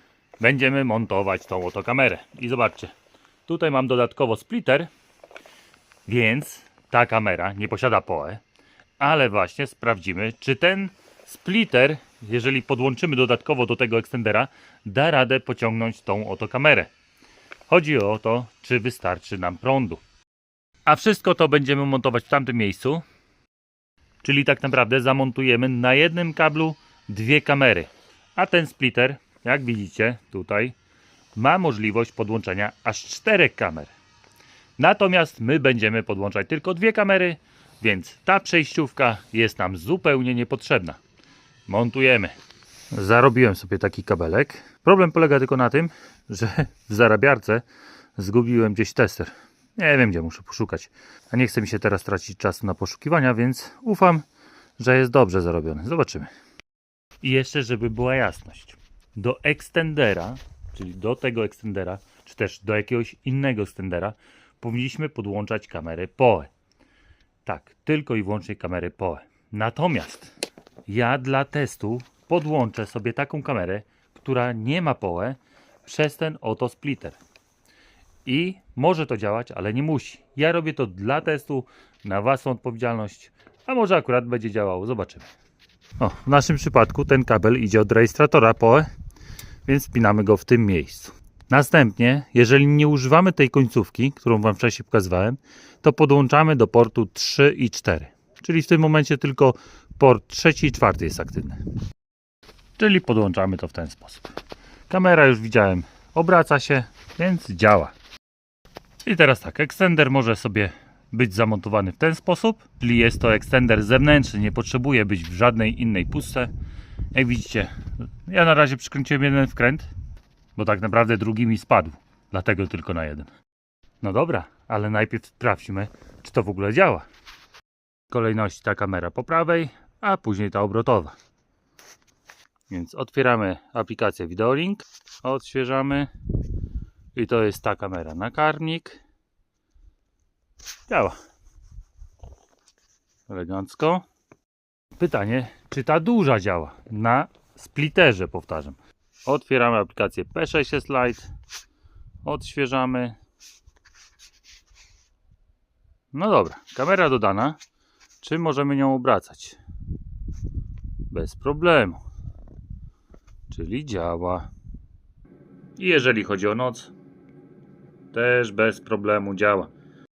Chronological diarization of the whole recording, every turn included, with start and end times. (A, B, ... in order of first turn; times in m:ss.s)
0:00.4-0:02.9 A
0:03.5-0:04.9 A
0:06.0-0:08.4 A
0:09.0-0:16.9 A
0:17.7-0:20.0 A
0:20.8-0:23.0 A
0:24.2-0:30.7 A
0:31.4-0:33.9 A
0:34.8-0:41.0 A
0:41.7-0:42.4 A
0:42.9-0:47.6 A
0:48.2-0:54.2 A
0:54.8-0:56.3 A
0:57.2-1:06.5 A
1:07.4-1:10.3 A
1:10.9-1:17.2 A
1:18.2-1:25.3 A
1:26.0-1:28.9 A
1:29.6-1:41.6 A
1:42.8-1:44.3 A
1:44.9-1:47.9 A
1:49.0-1:56.5 A
1:57.1-1:59.9 A
2:00.6-2:03.3 A
2:04.0-2:07.1 A
2:08.1-2:11.2 A
2:12.7-2:16.1 A
2:17.1-2:19.0 A
2:20.9-2:21.2 A
2:23.3-2:24.0 A
2:25.0-2:31.3 A
2:32.2-2:33.2 A
2:36.1-2:37.6 A
2:38.2-2:39.6 A
2:41.1-2:42.0 A
2:43.5-2:44.5 A
2:45.8-2:46.9 A
2:48.1-2:49.7 A